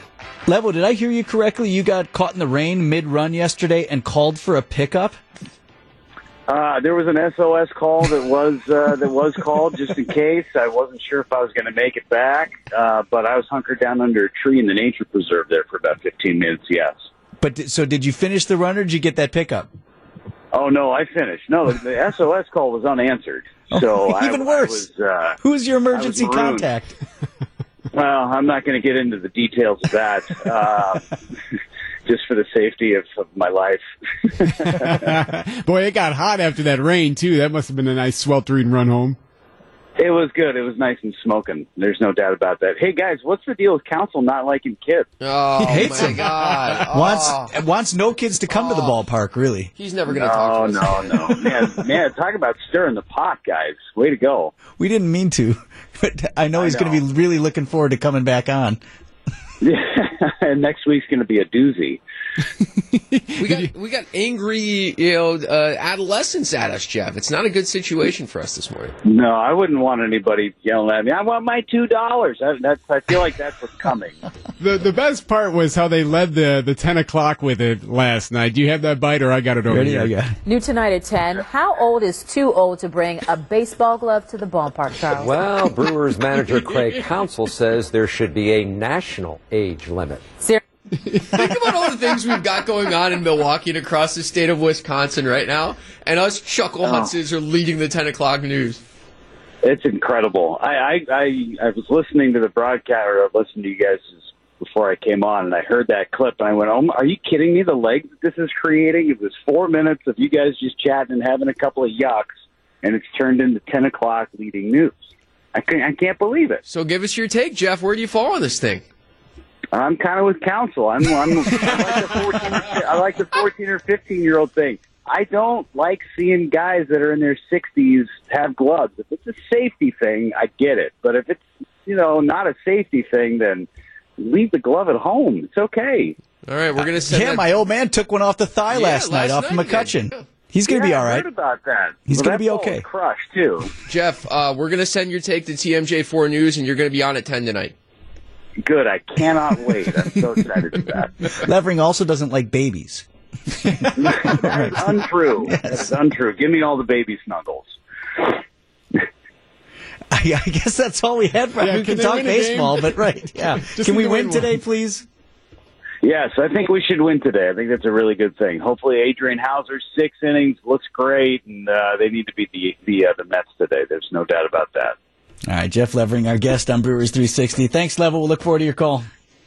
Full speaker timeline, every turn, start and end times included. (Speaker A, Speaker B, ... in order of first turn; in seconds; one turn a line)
Speaker A: 0.5-5.2
Speaker B: 6.5-17.0
Speaker A: 17.4-19.7
Speaker B: 20.5-25.4
Speaker A: 23.7-24.9
Speaker A: 25.4-26.9
Speaker B: 25.9-26.7
Speaker B: 27.9-31.1
Speaker B: 32.0-35.0
Speaker C: 34.7-39.2
Speaker B: 40.0-45.1
Speaker D: 45.2-47.5
Speaker A: 45.6-49.7
Speaker D: 48.5-49.0
Speaker D: 49.8-51.4
Speaker B: 50.1-54.5
Speaker A: 54.8-58.8
Speaker B: 56.5-57.0
Speaker B: 59.6-62.0
Speaker D: 63.4-68.9
Speaker B: 69.0-74.2
Speaker C: 74.6-80.1
Speaker A: 79.7-80.4
Speaker E: 80.4-85.3
Speaker F: 85.2-90.3
Speaker D: 86.5-86.9
Speaker D: 91.1-98.8
Speaker B: 96.8-97.1
Speaker B: 99.6-112.3
Speaker B: 112.8-115.0
Speaker B: 115.5-116.6
Speaker D: 116.7-118.8
Speaker B: 119.7-136.2
Speaker D: 136.4-137.4
Speaker A: 136.8-141.2
Speaker D: 138.7-140.2
Speaker B: 140.7-143.7
Speaker A: 142.1-142.8
Speaker D: 143.9-147.7
Speaker B: 148.6-151.3
Speaker A: 151.3-153.1
Speaker A: 153.6-154.9
Speaker B: 154.0-158.4
Speaker A: 155.4-155.9
Speaker A: 160.1-165.1
Speaker C: 161.6-164.5
Speaker B: 166.0-174.9
Speaker A: 175.5-179.0